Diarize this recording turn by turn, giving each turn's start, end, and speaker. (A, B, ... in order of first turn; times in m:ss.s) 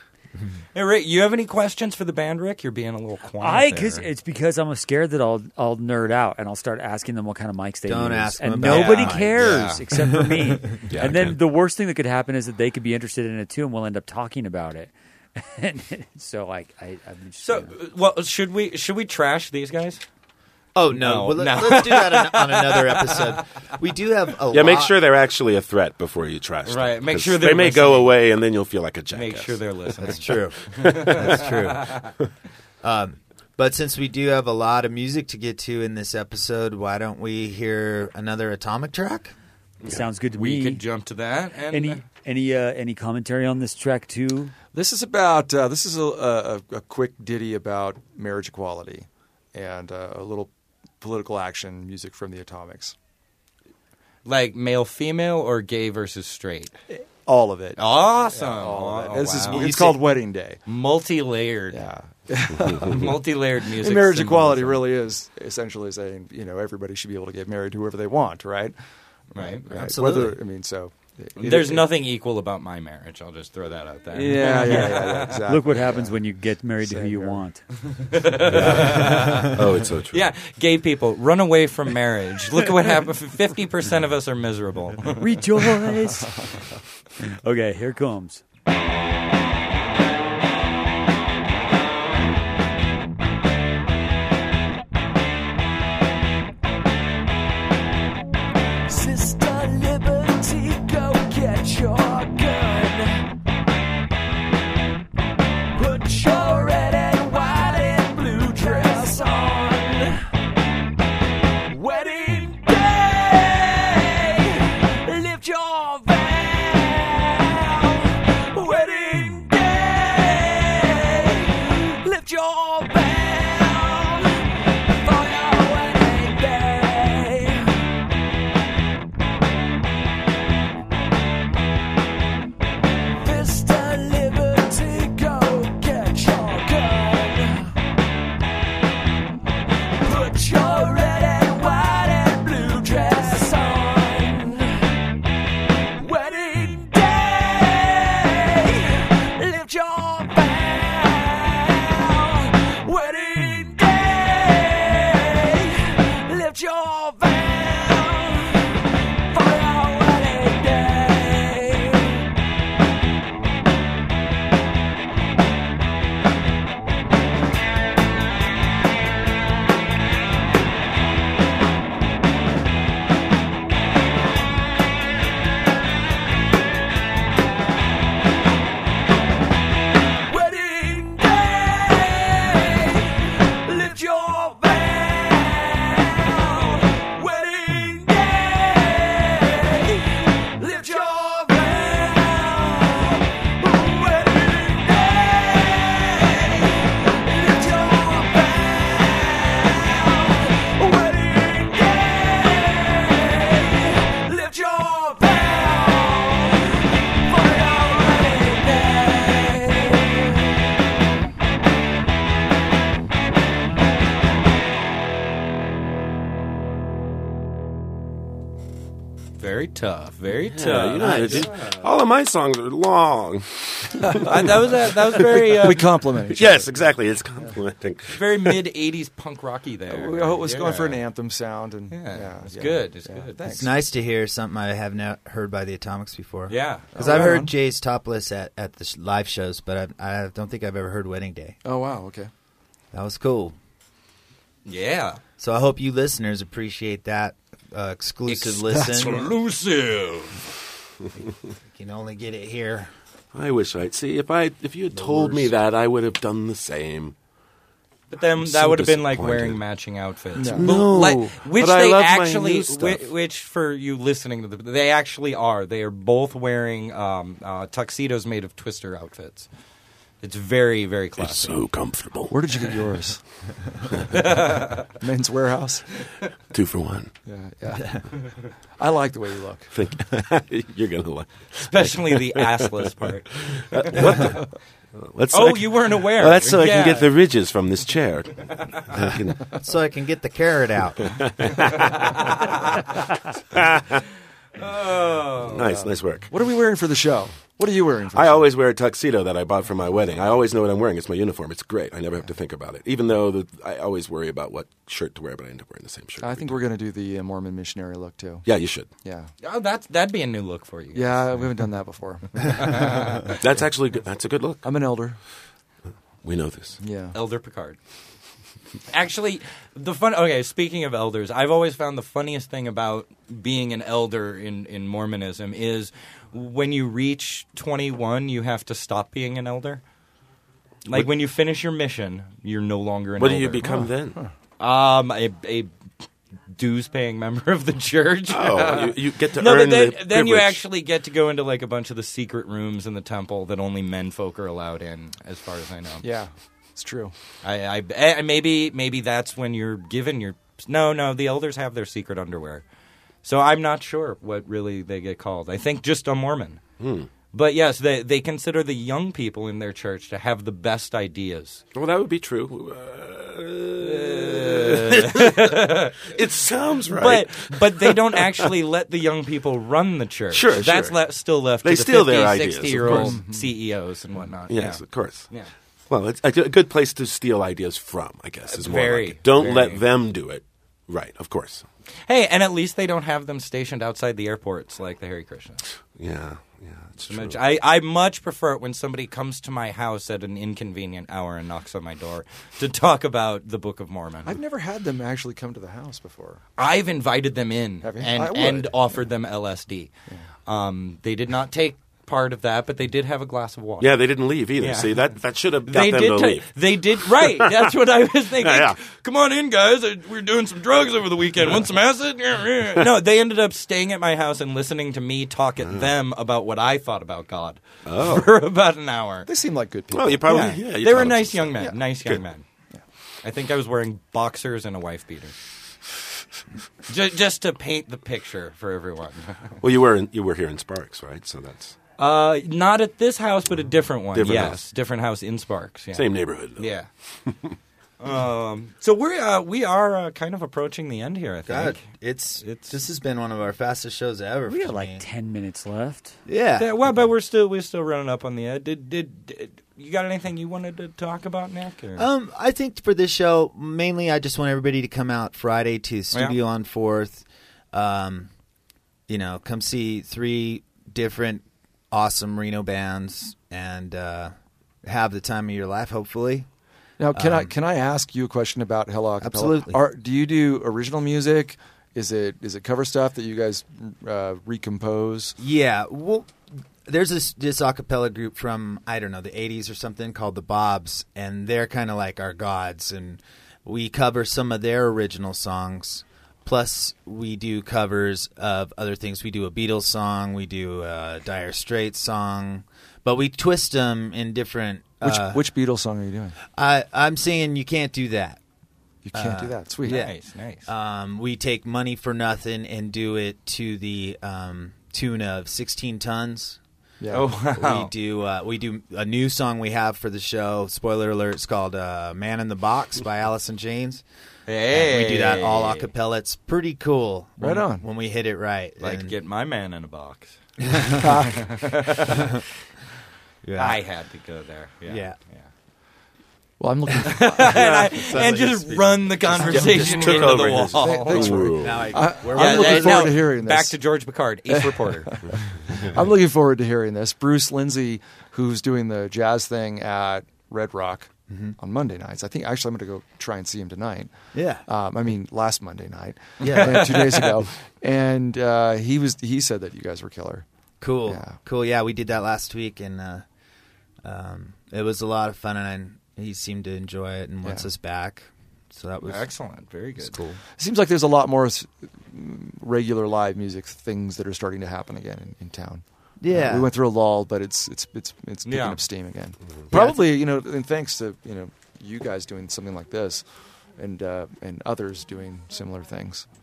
0:00.7-0:04.1 A
0:03.4-0:17.7 B
0:07.9-0:10.4 C
0:08.6-0:09.8 A
0:10.9-0:11.4 D
0:17.4-0:20.0 A
0:20.8-0:25.0 C
0:20.9-0:23.4 A
0:24.5-0:29.6 D
0:26.7-0:28.2 A
0:29.1-0:32.1 A
0:30.0-0:32.1 C
0:30.8-0:31.4 D
0:32.8-0:39.3 C
0:39.9-0:40.8 B
0:40.3-0:42.0 A
0:41.7-0:44.5 B
0:44.7-0:53.0 E
0:54.2-0:56.7 A
0:56.9-1:00.6 E
0:57.8-1:00.0 A
0:59.5-1:00.0 C
1:00.6-1:01.8 A
1:01.7-1:03.2 E
1:02.8-1:04.8 A
1:03.8-1:11.9 E
1:09.3-1:09.7 A
1:09.7-1:10.4 C
1:11.4-1:15.4 A
1:14.1-1:17.5 E
1:14.3-1:18.0 B
1:18.0-1:19.6 A
1:19.4-1:20.3 D
1:20.1-1:25.4 A
1:25.1-1:26.5 B
1:27.2-1:28.4 B
1:38.9-1:43.3 F
1:45.8-1:50.2 F
1:51.7-2:07.8 F
2:13.2-2:17.7 F
2:20.0-2:24.9 F
2:26.0-2:38.7 F
2:39.3-2:42.3 F
3:00.3-3:30.5 F
3:39.4-3:41.9 A
3:40.5-3:44.2 D
3:44.0-3:44.3 E
3:44.2-3:45.8 A
3:45.1-3:46.7 E
3:46.3-3:48.6 D
3:48.1-3:51.0 A
3:49.9-3:53.8 E
3:51.9-3:53.4 A
3:53.4-4:01.6 C
3:56.5-3:57.3 A
3:57.0-3:57.5 E
4:01.6-4:02.3 E
4:02.9-4:03.6 C
4:04.7-4:05.2 A
4:05.4-4:09.3 C
4:08.3-4:10.4 A
4:11.7-4:12.9 C
4:13.3-4:17.2 D
4:14.9-4:15.6 C
4:18.1-4:29.5 A
4:18.4-4:19.6 D
4:20.4-4:21.3 E
4:20.5-4:23.0 D
4:30.2-4:31.6 A
4:31.2-4:32.7 D
4:32.3-4:33.2 E
4:34.1-4:34.8 A
4:35.0-4:35.9 E
4:36.5-4:37.1 D
4:37.3-4:39.7 E
4:39.7-4:49.5 D
4:41.7-4:44.3 A
4:45.3-4:47.1 A
4:49.6-4:51.3 C
4:51.1-4:52.0 D
4:51.8-4:52.9 A
4:53.5-4:54.0 D
4:54.6-4:55.8 A
4:55.4-4:56.3 D
4:56.3-4:58.5 E
4:58.1-5:06.6 D
5:06.2-5:08.5 E
5:08.4-5:08.9 D
5:09.0-5:09.3 E
5:09.4-5:11.4 A
5:10.9-5:13.3 E
5:12.6-5:13.2 A
5:13.3-5:14.7 D
5:14.6-5:15.2 E
5:16.2-5:16.8 D
5:16.8-5:17.2 E
5:17.1-5:17.8 A
5:18.9-5:29.8 A
5:30.9-5:33.7 A
5:33.2-5:34.2 D
5:33.7-5:34.3 E
5:34.6-5:35.7 A
5:36.6-5:46.1 A
5:38.3-5:40.6 D
5:46.0-5:47.1 E
5:47.4-5:52.6 A
5:53.2-5:56.6 A
5:56.8-5:57.1 D
5:57.3-6:01.6 A
6:01.7-6:08.5 D
6:03.8-6:06.1 A
6:06.9-6:15.5 A
6:10.3-6:11.0 D
6:11.6-6:13.2 D
6:12.8-6:13.5 E
6:14.5-6:15.3 D
6:15.9-6:21.7 D
6:18.5-6:19.8 A
6:22.1-6:25.7 A
6:26.0-6:27.4 D
6:27.1-6:34.4 A
6:34.2-6:36.4 E
6:36.6-6:39.9 A
6:37.8-6:38.7 E
6:40.5-6:43.9 A
6:43.8-6:47.6 D
6:44.6-6:44.9 A
6:45.7-6:59.3 A
6:48.4-6:48.8 D
6:57.9-6:58.3 D
6:59.3-7:00.4 E
6:59.9-7:02.2 D
7:00.2-7:02.4 A
7:03.2-7:05.4 A
7:06.9-7:09.6 A
7:09.6-7:11.8 D
7:12.0-7:16.9 A
7:14.1-7:14.6 D
7:16.0-7:16.7 D
7:17.3-7:17.6 D
7:18.0-7:21.8 A
7:21.5-7:25.1 C
7:22.4-7:22.8 A
7:24.5-7:26.2 B
7:26.3-7:26.8 C
7:26.6-7:32.1 A
7:32.0-7:38.3 C
7:39.1-7:46.5 C
7:47.0-7:55.4 E
7:47.1-7:47.6 C
7:49.2-7:49.8 C
7:55.4-8:15.4 C
8:15.0-8:16.4 E
8:16.6-8:18.4 C
8:19.0-8:20.0 E
8:19.1-8:26.6 C
8:19.9-8:20.7 A
8:27.0-8:27.3 E
8:27.1-8:27.9 A
8:27.5-8:34.0 C
8:34.5-8:35.9 A
8:34.7-8:39.2 C
8:37.4-8:37.9 E
8:38.8-8:40.4 A
8:40.7-8:41.0 C
8:41.0-8:41.7 E
8:41.4-8:42.3 A
8:43.4-8:43.8 C
8:43.6-8:45.5 A
8:44.9-8:45.2 C
8:46.6-8:47.6 E
8:47.1-8:51.5 A
8:47.5-8:49.7 C
8:49.4-8:52.0 D
8:49.8-8:50.1 E
8:50.8-8:53.8 E
8:51.6-8:53.2 C
8:52.3-8:55.1 A
8:54.5-9:04.1 E
9:01.3-9:01.6 C
9:04.3-9:04.6 C
9:04.7-9:10.5 E
9:06.4-9:07.3 C
9:10.8-9:13.2 C
9:11.1-9:11.4 E
9:14.0-9:19.3 C
9:19.1-9:20.2 A
9:20.0-9:20.4 C
9:20.6-9:36.3 E
9:26.2-9:26.7 C
9:28.4-9:28.8 A
9:29.7-9:30.0 C